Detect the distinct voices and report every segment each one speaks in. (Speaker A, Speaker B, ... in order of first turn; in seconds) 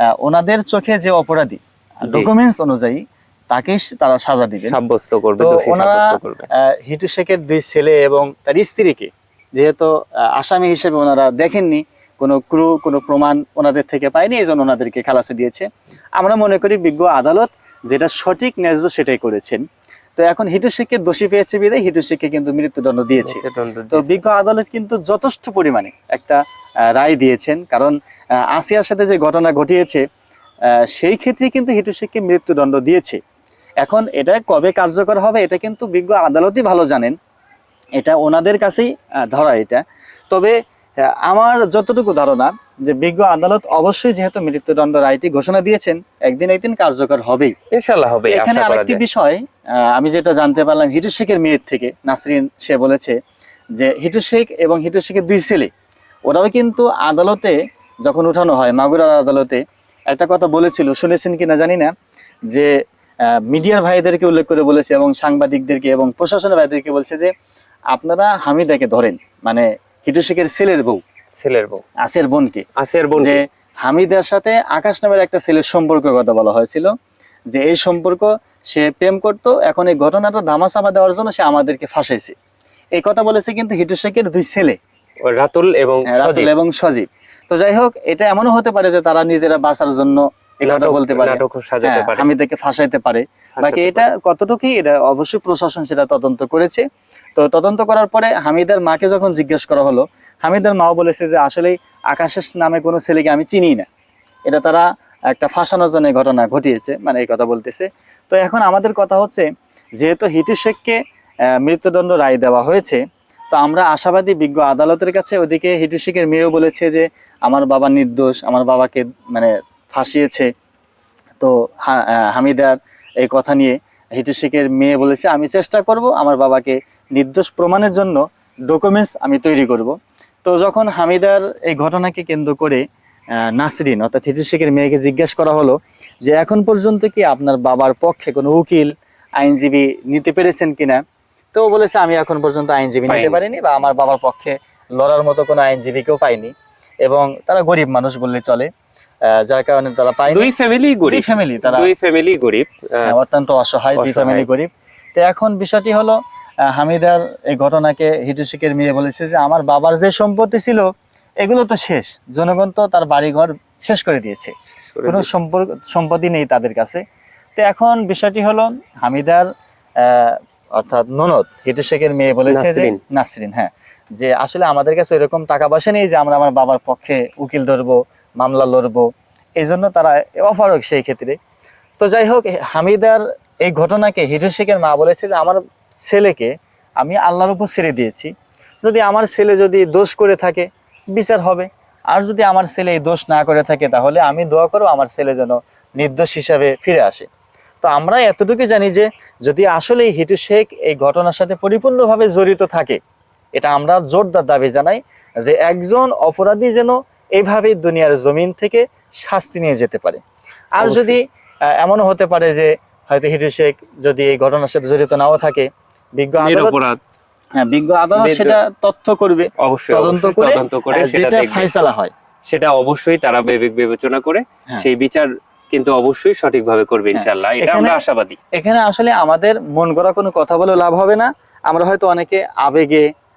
Speaker A: 0.2-4.8, 5.4-6.1, 6.7-15.7, 16.2-19.6, 20.2-26.4, 26.9-27.9, 28.5-30.0, 30.9-33.2, 33.8-37.1, 38.0-47.5, 48.3-53.1, 53.8-55.7, 56.3-61.9, 63.5-67.3, 67.9-71.0, 72.0-72.6, 73.2-76.9, 77.5-82.3, 82.9-84.8, 86.1-96.8, 97.4-103.8, 104.5-109.5, 110.0-111.0, 111.6-113.0, 113.5-120.5, 121.4-132.8, 133.5-141.0, 141.5-146.5, 147.0-148.7, 149.4-150.5, 151.0-151.9, 153.0-156.2, 156.7-160.9, 161.4-164.5, 165.1-167.0, 167.6-169.5, 170.0-179.1, 179.6-181.3, 182.0-188.3, 188.8-197.2, 197.8-203.0, 203.6-210.2, 210.7-211.2, 211.8-216.7, 217.6-222.1, 227.1-228.0, 228.5-233.1
Speaker B: 4.6-6.5, 23.2-24.2, 47.7-49.0, 71.3-71.8, 72.8-73.4, 85.2-86.5, 90.6-92.3, 93.5-94.0, 143.1-143.4, 150.3-153.1, 154.0-154.5, 164.9-165.3, 172.5-173.0, 210.8-211.2, 216.4-217.0, 218.2-218.6, 219.6-221.7, 222.5-228.4